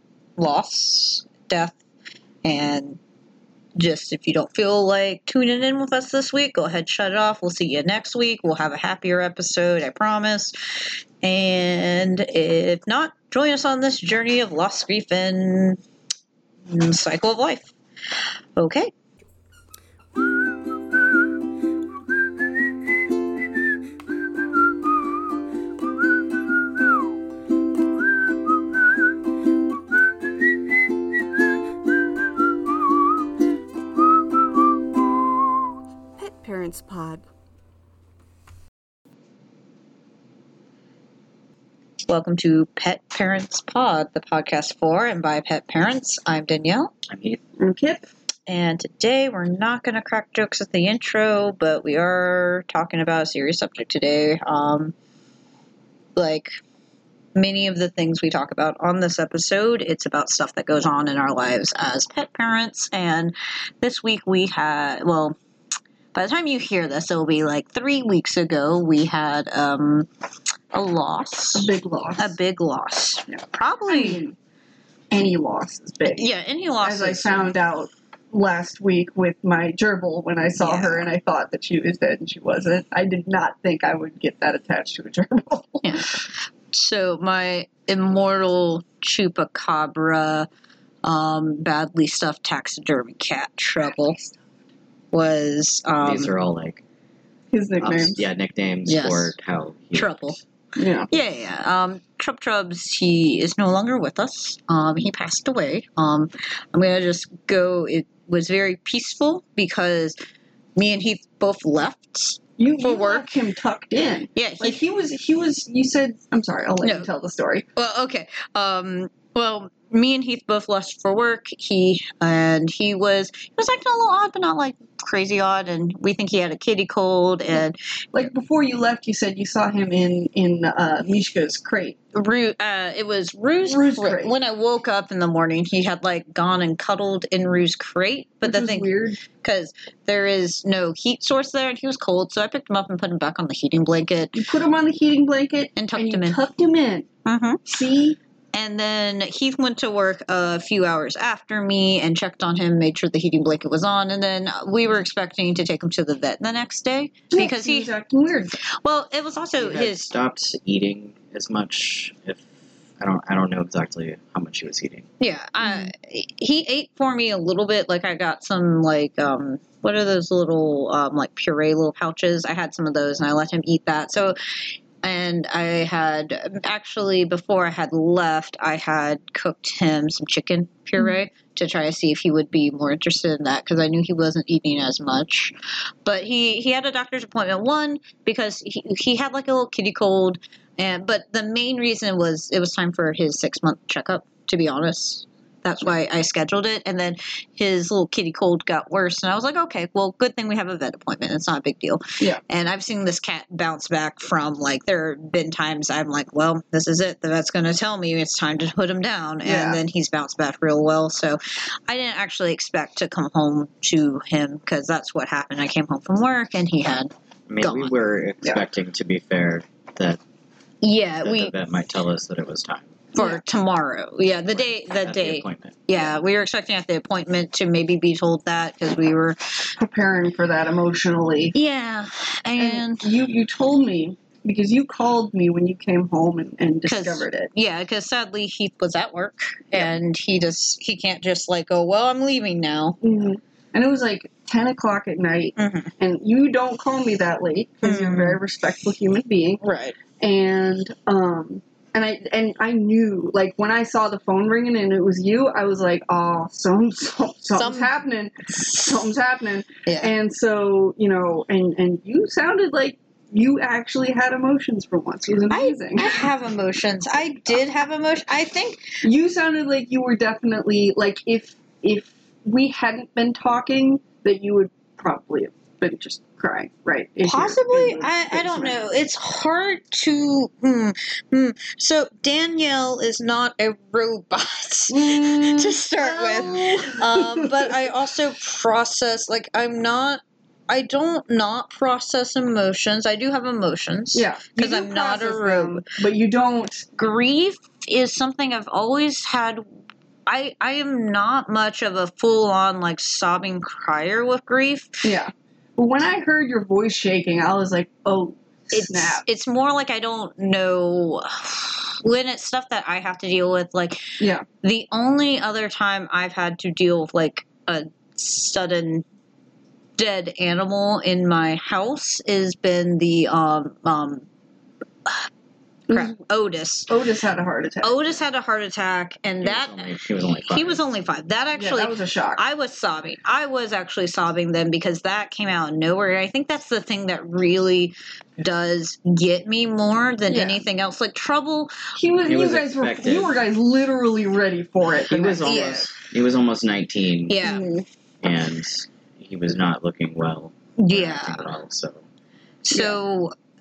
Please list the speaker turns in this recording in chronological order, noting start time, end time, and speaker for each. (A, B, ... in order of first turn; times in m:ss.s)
0:00.4-0:01.8 A
0:02.4-0:03.0 A
0:03.8-0:15.8 A
0:16.7-0:18.9 A
0:36.2-0:37.2 B
0:42.1-0:46.9 A
0:47.1-0:47.4 C
0:47.6-0:48.0 B
0:48.5-0:54.9 A
0:56.2-0:56.6 A
0:57.4-1:05.4 A
1:06.1-1:10.1 A
1:10.7-1:14.2 A
1:11.6-1:12.3 B
1:13.3-1:14.4 B
1:15.1-1:16.3 B
1:16.1-1:17.5 A
1:16.8-1:26.0 B
1:20.6-1:21.0 A
1:25.8-1:30.5 A
1:31.0-1:34.2 A
1:35.1-1:36.3 A
1:36.0-1:36.8 C
1:37.5-1:38.2 B
1:37.8-1:40.4 C
1:38.9-1:39.3 A
1:39.9-1:40.4 A
1:40.8-1:41.1 B
1:41.1-1:50.2 A
1:50.8-1:53.3 A
1:52.6-1:57.6 B
1:54.4-1:54.8 A
1:56.8-1:57.1 A
1:57.8-2:07.8 A
2:08.1-2:12.0 B
2:12.1-2:24.4 A
2:13.7-2:14.3 B
2:18.4-2:19.2 B
2:24.4-2:27.1 B
2:25.8-2:26.4 A
2:27.3-2:27.7 A
2:27.7-2:28.2 B
2:28.5-2:37.9 A
2:37.3-2:38.5 B
2:38.6-2:40.1 A
2:39.6-2:42.5 C
2:43.0-2:45.1 C
2:45.2-3:37.9 A
2:45.6-2:45.9 B
3:29.4-3:29.8 B
3:37.5-3:40.2 C
3:40.8-3:41.5 A
3:41.2-3:43.0 C
3:43.2-3:43.4 B
3:43.2-3:49.4 A
3:44.5-3:45.8 C
3:49.8-3:51.6 B
3:51.5-3:53.1 A
3:52.6-3:57.5 B
3:56.9-4:03.0 A
4:03.0-4:09.6 B
4:05.6-4:05.9 A
4:07.8-4:08.4 A
4:09.6-4:10.0 A
4:10.2-4:26.2 B
4:17.6-4:17.9 A
4:19.9-4:20.1 A
4:25.5-4:28.8 A
4:29.0-4:38.8 B
4:37.2-4:55.8 A
4:44.9-4:47.7 B
4:54.1-4:56.9 B
4:57.0-4:59.6 A
5:00.3-5:05.1 A
5:05.0-5:09.2 B
5:08.7-5:14.0 A
5:14.2-5:14.4 B
5:14.6-5:19.0 A
5:20.0-5:24.2 A
5:25.9-5:26.2 B
5:25.9-5:26.9 A
5:26.9-5:28.1 B
5:27.8-5:41.7 A
5:29.4-5:30.8 C
5:31.6-5:32.4 B
5:40.3-5:40.6 B
5:42.0-5:45.8 B
5:42.2-5:43.4 C
5:45.1-5:47.4 C
5:45.4-5:45.9 A
5:47.3-5:47.7 A
5:47.4-5:47.8 B
5:48.2-5:52.0 C
5:50.8-5:51.5 A
5:52.6-5:53.3 A
5:52.7-5:53.0 B